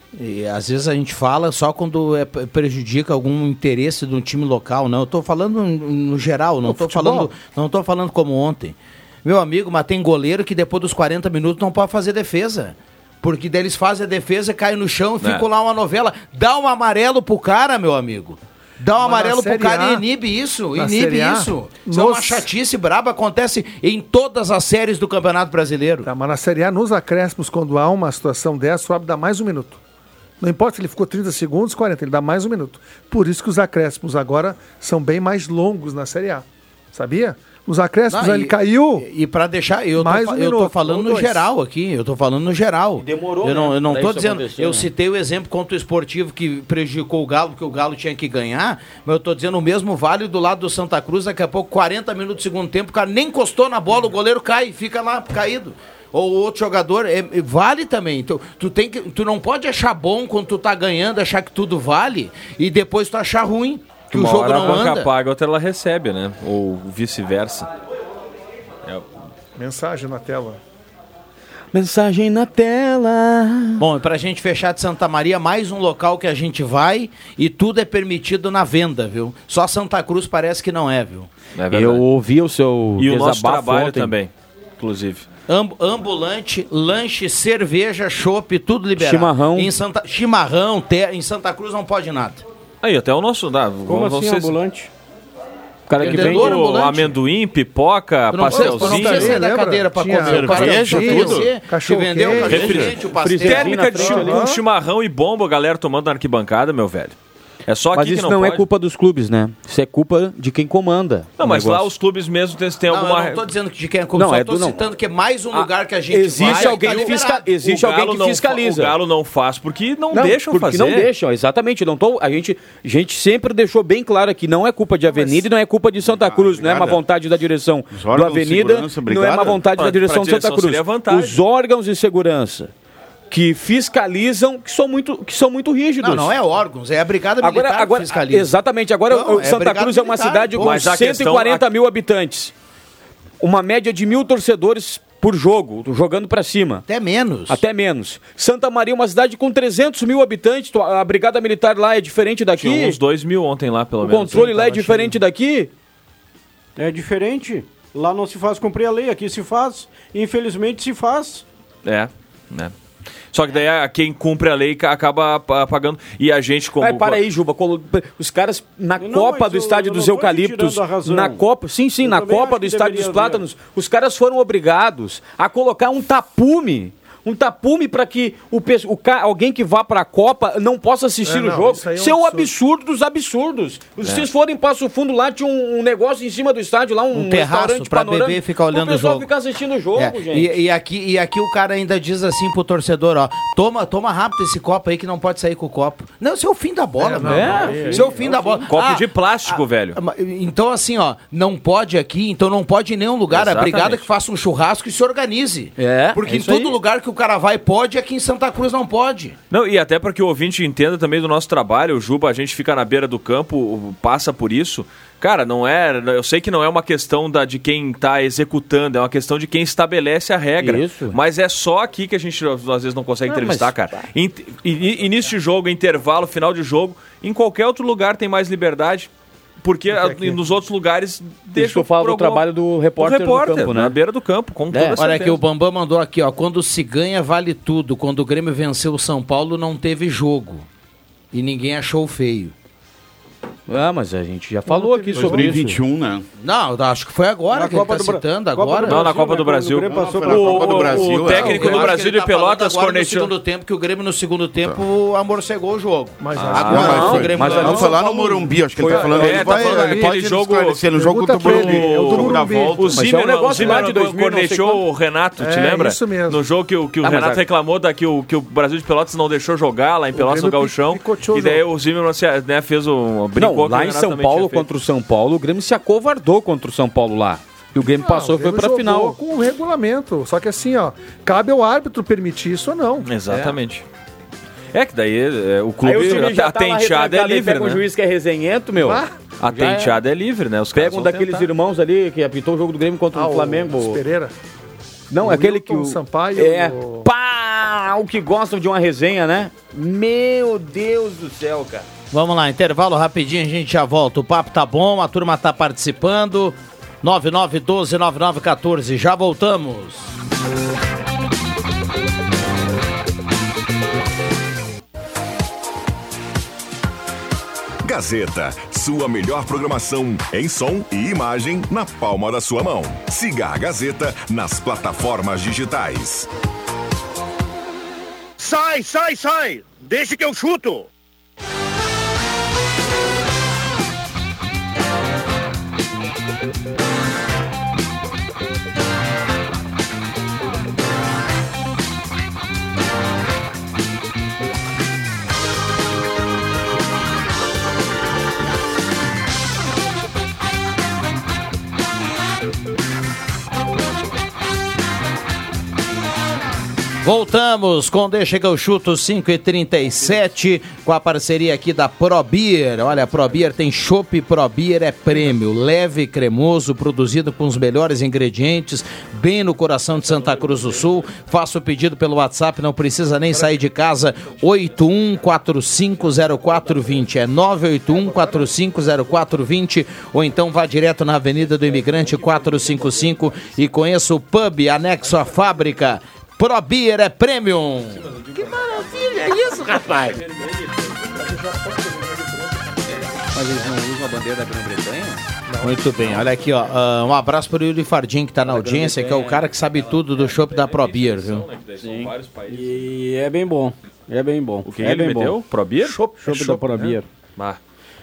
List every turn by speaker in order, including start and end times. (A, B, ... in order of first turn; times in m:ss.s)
0:00.2-0:26.1 A
0:06.6-0:07.3 B
0:15.2-0:15.5 C
0:19.0-0:20.0 B
0:20.8-0:22.5 B
0:26.0-0:29.8 B
0:30.4-0:39.0 B
0:38.1-1:05.1 A
0:40.0-0:41.5 B
0:43.0-0:44.9 D
1:04.1-1:07.7 C
1:09.6-1:10.6 B
1:11.7-1:13.8 D
1:13.8-1:21.3 A
1:21.6-1:22.0 C
1:21.7-1:24.1 D
1:23.0-1:25.2 C
1:25.5-1:32.4 A
1:29.0-1:29.7 D
1:32.8-1:34.6 C
1:33.8-1:34.9 E
1:35.9-1:36.5 D
1:36.0-1:37.2 A
1:36.0-1:36.5 E
1:36.0-1:39.4 C
1:38.3-1:44.2 A
1:38.5-1:42.9 B
1:40.2-1:41.5 F
1:42.4-1:47.1 C
1:42.5-1:42.9 F
1:43.0-1:44.4 D
1:44.0-1:44.6 B
1:47.7-1:48.6 C
1:47.9-1:51.9 D
1:51.4-1:53.4 C
1:52.9-1:57.4 A
1:54.1-1:54.8 D
1:55.5-1:59.0 D
1:56.4-2:01.1 C
2:00.1-2:12.7 D
2:06.0-2:07.0 F
2:07.9-2:09.6 F
2:09.8-2:11.4 C
2:13.3-2:16.3 D
2:16.0-2:18.5 A
2:17.4-2:22.5 D
2:19.1-2:20.9 A
2:20.6-2:21.6 C
2:23.4-2:26.8 D
2:26.9-2:27.6 A
2:27.5-2:33.0 D
2:32.6-2:34.5 C
2:34.0-2:35.7 D
2:34.4-2:35.1 B
2:36.8-2:41.4 E
2:41.8-2:42.7 C
2:43.3-2:47.2 C
2:46.8-3:10.6 D
2:49.0-2:51.4 E
2:52.0-2:53.4 E
3:01.2-3:02.5 B
3:07.1-3:09.3 A
3:09.9-3:29.4 A
3:17.0-3:18.3 B
3:17.2-3:18.1 D
3:17.4-3:18.6 E
3:18.7-3:20.0 C
3:23.3-3:24.0 C
3:25.8-3:26.8 D
3:29.5-3:49.1 C
3:40.6-3:41.2 D
3:43.3-3:44.0 D
3:49.6-3:52.4 C
3:49.9-3:50.4 B
3:51.6-3:54.0 D
3:53.0-3:55.4 C
3:54.7-3:55.0 D
3:55.0-4:00.6 A
4:01.3-4:02.5 A
4:03.7-4:05.8 D
4:04.7-4:05.5 B
4:05.1-4:06.2 F
4:06.4-4:09.0 A
4:07.5-4:11.2 E
4:08.8-4:13.3 C
4:09.8-4:11.7 F
4:11.3-4:11.8 B
4:11.3-4:18.0 A
4:16.2-4:20.2 B
4:16.4-4:17.1 C
4:16.6-4:23.0 F
4:16.6-4:18.0 D
4:18.8-4:19.3 D
4:18.9-4:34.7 C
4:20.9-4:22.8 B
4:22.9-4:24.8 D
4:25.4-4:26.4 B
4:27.0-4:27.4 D
4:30.1-4:31.6 B
4:33.4-4:39.2 D
4:38.0-4:43.1 B
4:43.0-4:43.8 C
4:44.7-4:47.8 C
4:45.8-4:50.0 D
4:48.8-4:49.1 B
4:49.4-4:51.5 C
4:50.7-4:54.0 D
4:53.1-4:54.3 B
4:55.1-5:01.8 D
4:55.2-4:57.1 B
5:02.1-5:10.1 A
5:17.8-5:26.3 G
5:28.4-5:30.9 H
5:57.0-6:28.0 A
6:28.1-6:31.2 C
6:28.4-6:30.0 B
6:31.3-6:32.6 B
6:33.3-6:35.2 D
6:35.5-6:35.8 B
6:35.6-6:41.4 A
6:38.4-6:39.4 D
6:40.0-6:42.9 C
6:41.8-6:42.1 D
6:42.5-6:45.4 E
6:44.6-6:46.0 C
6:45.8-6:47.0 B
6:46.1-6:47.0 E